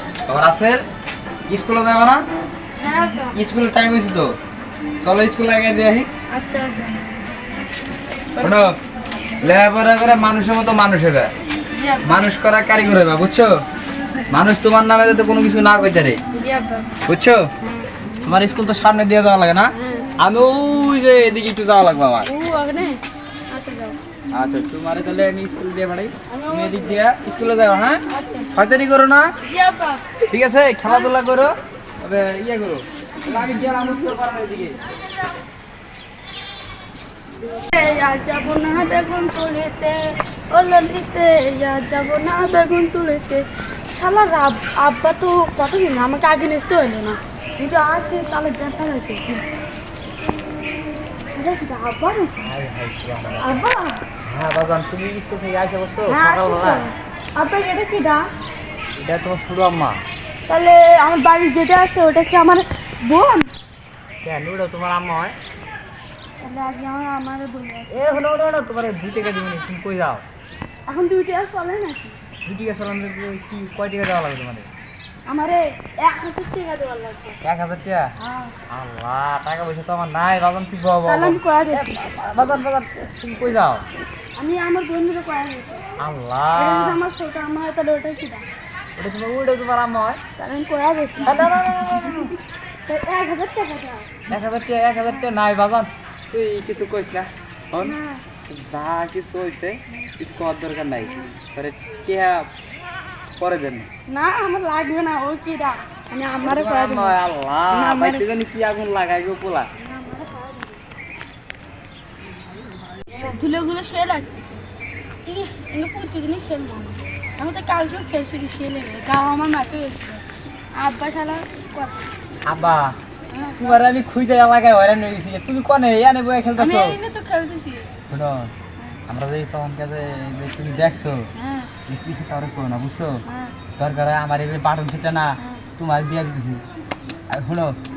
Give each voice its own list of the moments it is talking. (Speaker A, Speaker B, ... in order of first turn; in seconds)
Speaker A: 0.3-0.8, 1.5-2.2, 3.3-4.3, 5.0-6.1, 8.4-8.7, 9.4-11.3, 12.0-13.6, 14.3-16.2, 17.1-17.5, 18.2-22.3, 24.3-28.0, 28.5-29.3, 30.3-34.8, 52.4-53.5, 54.2-56.9, 59.0-60.0, 64.2-65.4, 67.9-70.2, 72.5-74.7, 77.4-78.1, 78.7-83.8, 86.0-87.0, 89.0-90.2, 91.2-92.3, 94.3-98.0, 98.5-102.5, 103.4-103.9, 106.4-109.7, 122.4-123.0, 123.6-127.0, 128.1-128.5, 129.1-131.3, 131.9-133.2, 133.8-136.6, 137.3-137.8
Speaker B: 2.8-3.3, 6.3-7.0, 8.3-8.6, 11.7-12.1, 16.3-16.9, 19.8-20.1, 22.2-24.0, 26.3-27.0, 28.1-28.6, 29.4-30.1, 37.7-49.5, 51.3-52.4, 53.4-54.0, 56.0-58.3, 60.5-63.5, 66.4-67.9, 70.9-72.2, 75.2-77.4, 78.2-78.5, 81.0-82.0, 84.4-85.9, 86.5-88.4, 90.4-94.2, 97.8-98.2, 101.0-101.3, 104.1-107.2, 107.7-108.3, 109.8-110.8, 113.1-114.6, 115.2-122.0, 123.3-123.8, 126.6-127.9, 131.3-131.7, 133.2-133.6